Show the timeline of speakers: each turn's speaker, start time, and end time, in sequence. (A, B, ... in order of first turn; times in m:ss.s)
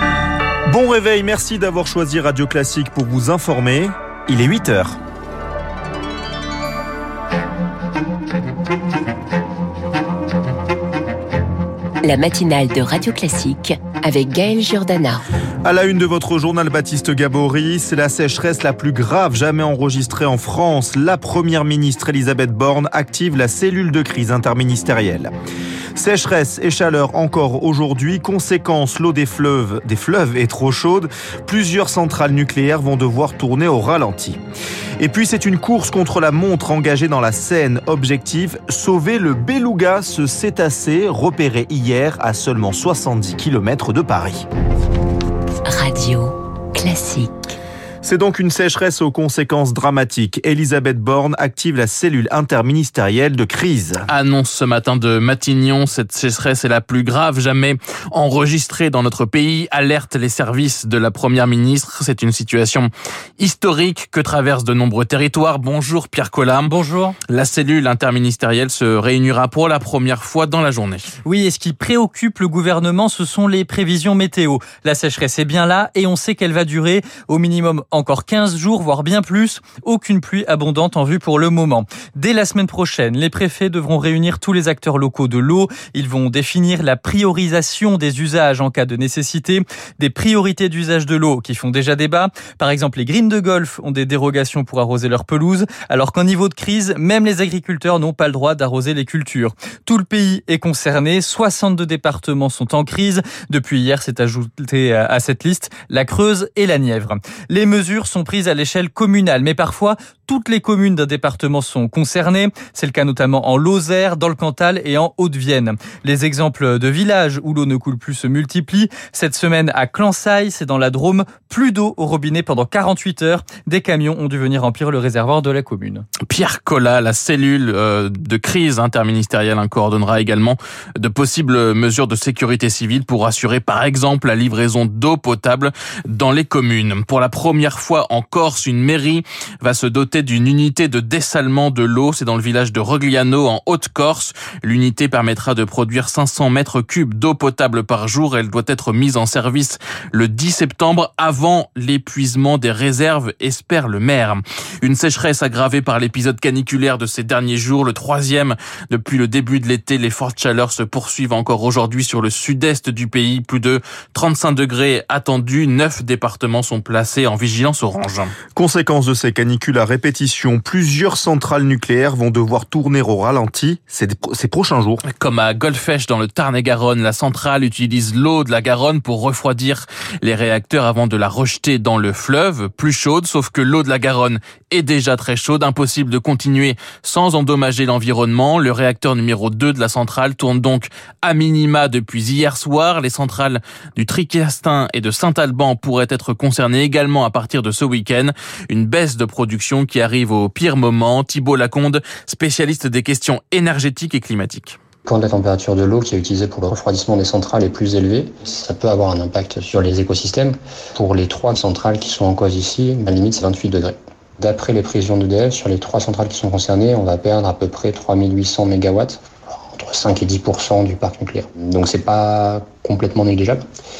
0:00.7-0:05.0 A
0:12.0-0:15.2 B
0:15.7-0:25.3 A
0:26.0-0:34.4 A
0:35.0-0:44.4 A
0:45.6-0:47.5 B
0:48.0-0:54.0 A
0:54.1-1:06.7 C
1:06.6-1:07.2 D
1:07.3-1:11.1 C
1:11.2-2:06.0 D
2:06.3-2:48.3 C
2:48.6-2:55.0 A
2:55.0-3:24.8 C
3:25.0-3:43.6 E